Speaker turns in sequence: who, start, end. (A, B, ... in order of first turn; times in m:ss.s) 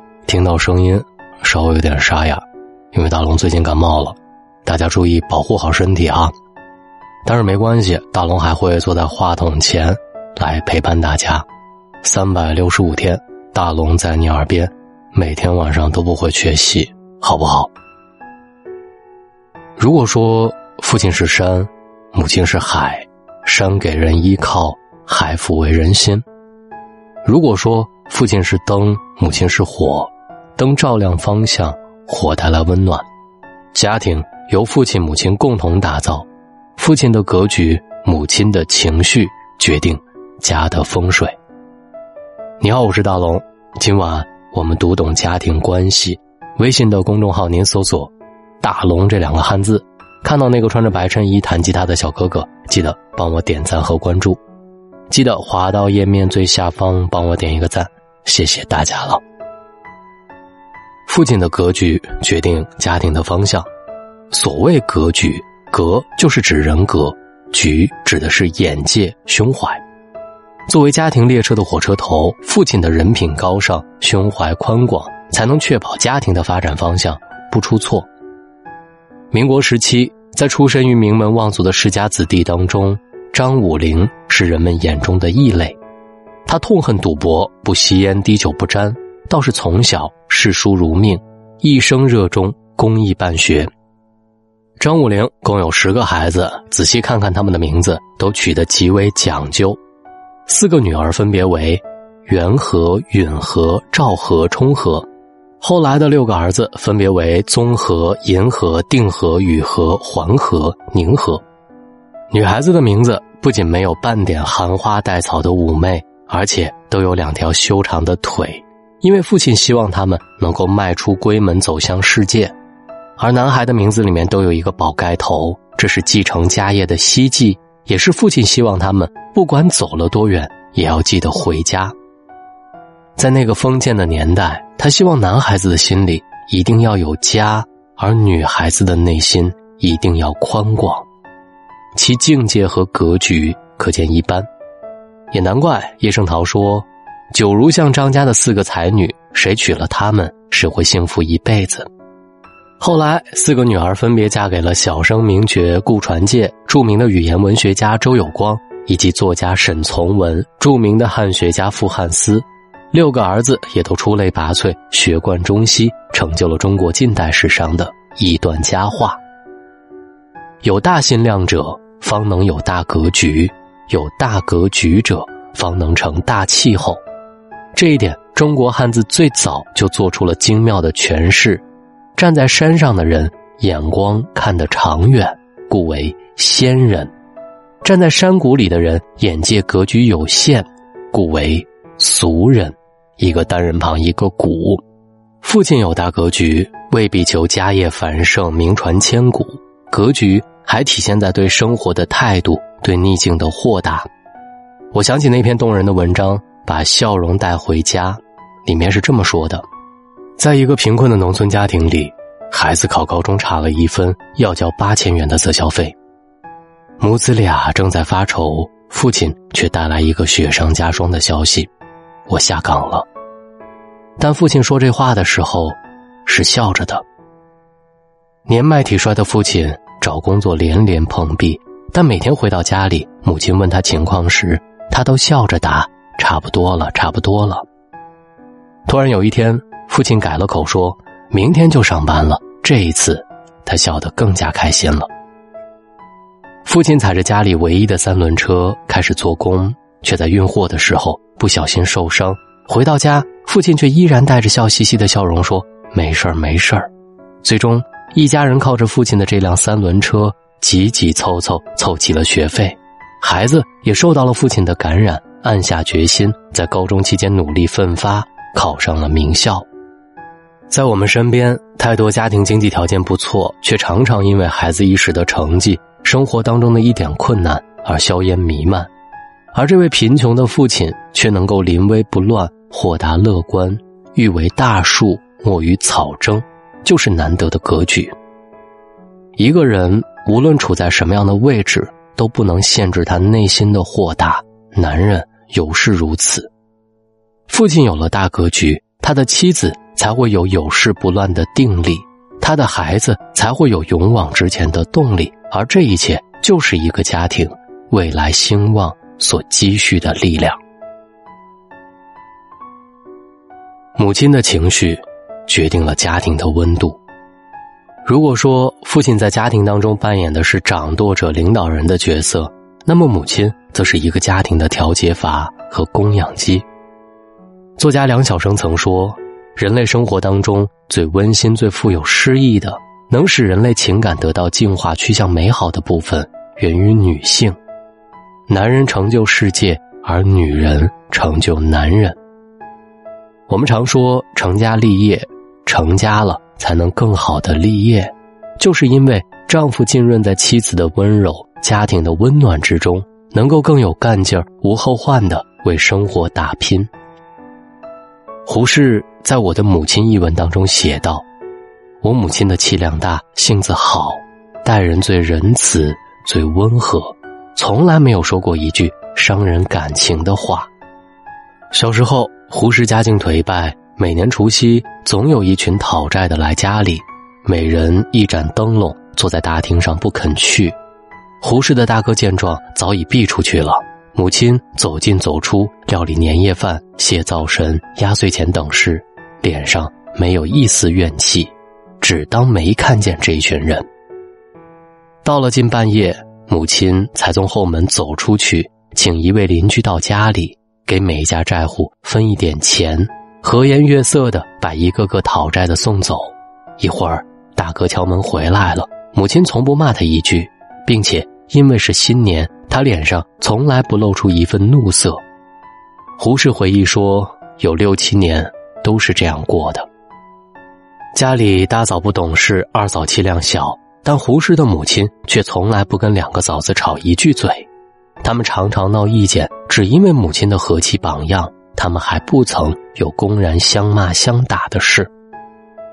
0:00.3-0:06.3 A
0:07.2-0:11.5 A
0:12.0-0:17.7 A
0:19.8-0:26.2 A
0:27.2-0:33.1 A
0:33.7-0:41.4 A
0:42.6-0:54.4 A
0:55.1-0:59.2 A
1:01.1-1:03.7 A
1:04.3-1:09.8 A
1:10.7-1:18.1 A
1:19.3-1:25.8 A
1:26.5-1:33.7 A
1:34.8-1:39.8 A
1:40.5-1:45.1 A
1:45.6-1:51.4 A
1:52.3-2:02.6 A
2:03.2-2:12.0 A
2:13.2-2:21.1 A
2:22.0-2:24.5 A
2:25.3-2:31.9 A
2:32.8-2:49.2 A
2:50.6-2:57.0 A
2:57.8-3:01.6 A
3:02.2-3:07.1 A
3:07.8-3:14.8 A
3:15.4-3:24.1 A
3:24.9-3:29.7 A
3:30.4-3:36.0 A
3:37.0-3:41.7 A
3:42.3-3:43.1 A
3:44.2-3:47.0 A
3:48.5-3:57.7 A
3:58.9-4:05.1 A
4:06.6-4:16.9 A
4:17.4-4:29.7 A
4:30.7-4:38.9 A
4:39.5-4:48.2 A
4:49.4-4:56.5 A
4:57.5-5:10.6 A
5:14.0-5:17.0 A
5:18.0-5:26.6 A
5:27.8-5:37.6 A
5:38.5-5:42.2 A
5:43.5-5:56.9 A
5:58.5-6:01.3 A
6:02.0-6:10.7 A
6:11.7-6:20.8 A
6:21.4-6:33.9 A
6:35.2-6:55.2 A
6:56.2-6:59.9 A
7:01.1-7:07.7 A
7:08.2-7:15.1 A